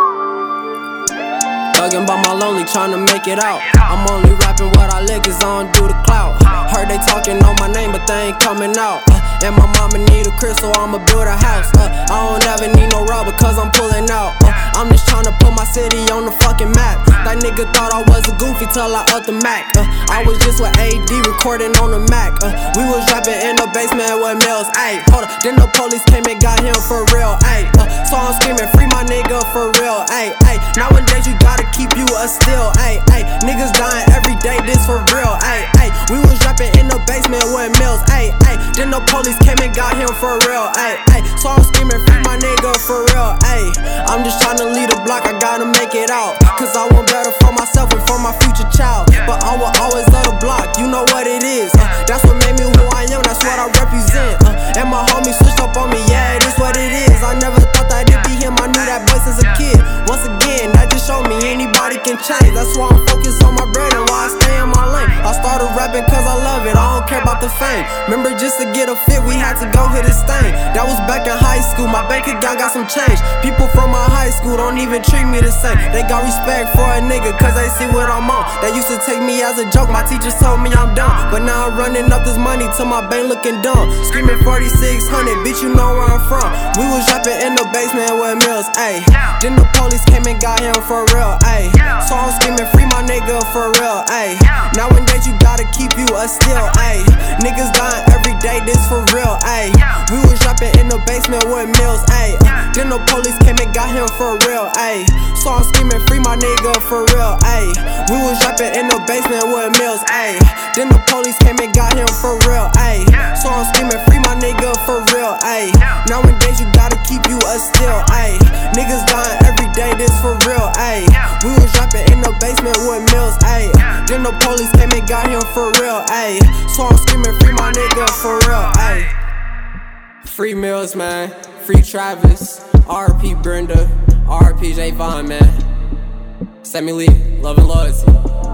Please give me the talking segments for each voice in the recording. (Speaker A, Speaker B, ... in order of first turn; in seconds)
Speaker A: 1.7-129.1, 130.2-135.6, 136.6-138.2